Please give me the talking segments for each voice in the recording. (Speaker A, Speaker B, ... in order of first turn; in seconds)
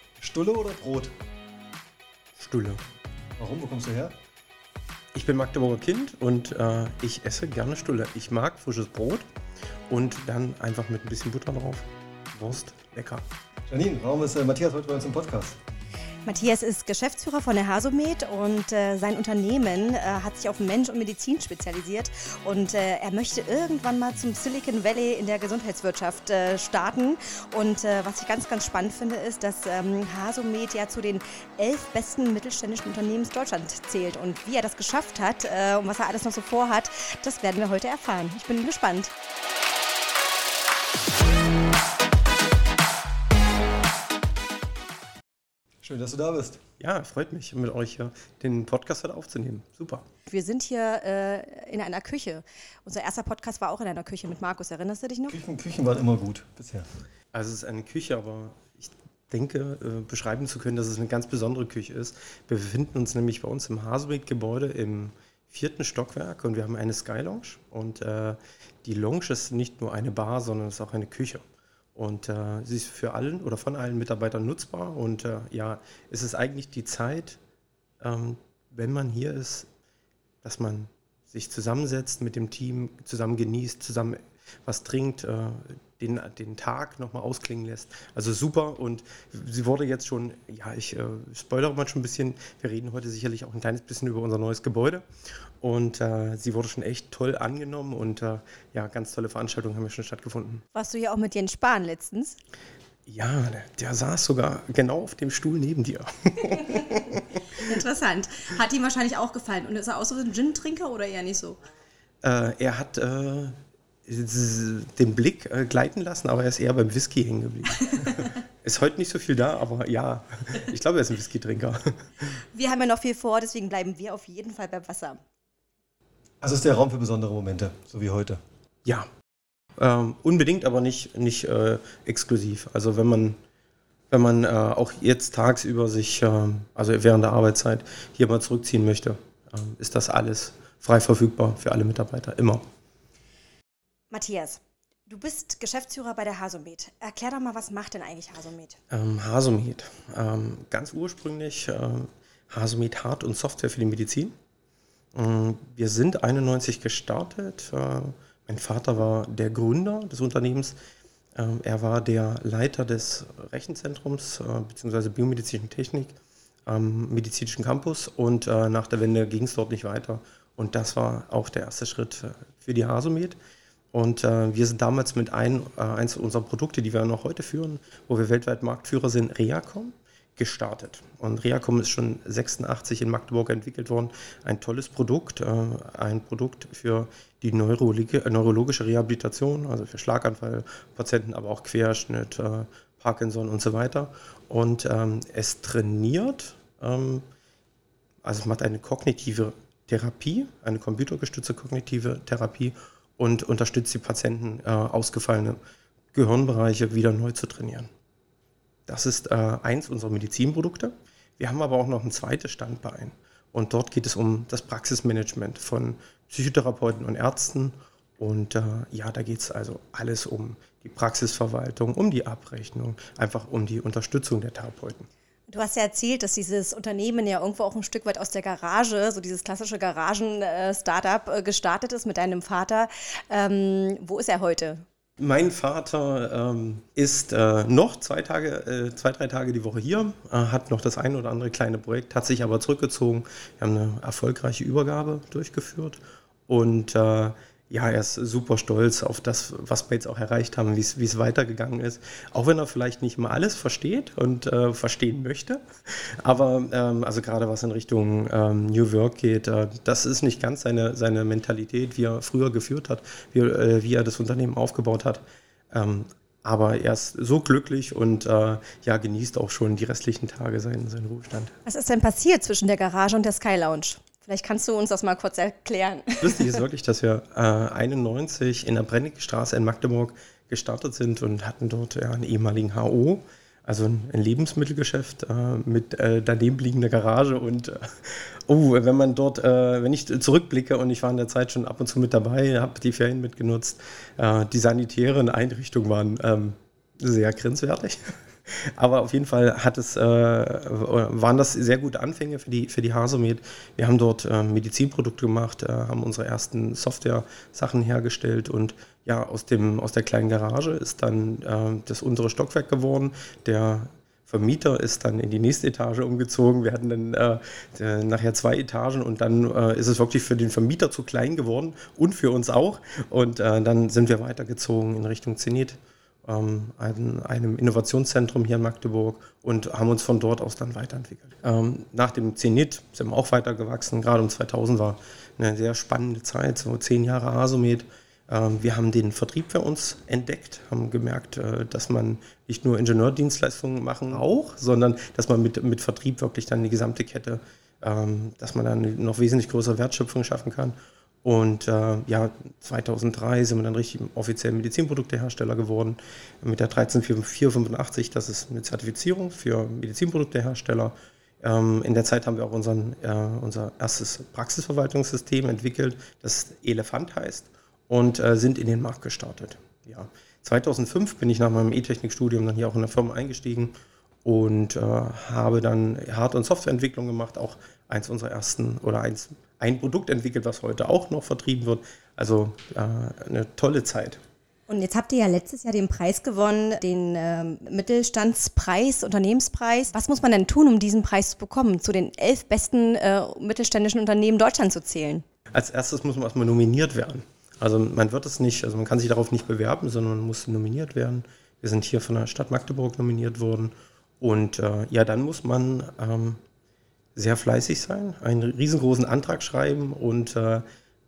Speaker A: 0.2-1.1, 3.4-4.2, 13.7-15.6, 45.8-46.6, 55.3-56.9, 126.4-128.4
Speaker B: 2.4-2.8, 5.1-9.2, 9.9-13.2, 46.8-50.0, 57.3-77.4, 78.0-79.7, 80.4-95.0, 95.6-100.6, 103.0-107.7, 112.2-122.2, 129.8-133.4, 134.1-142.6, 148.9-154.3, 155.1-160.8, 161.3-173.4, 173.9-197.2, 198.2-205.6, 206.1-207.9, 208.9-225.1, 235.2-271.5, 276.2-384.2, 395.5-406.4, 407.1-410.6
Speaker C: 16.2-39.1, 50.3-55.4, 100.7-102.4, 107.5-111.6, 117.9-118.3, 122.5-125.2, 144.1-148.8, 225.5-234.8, 271.6-276.5, 384.7-395.2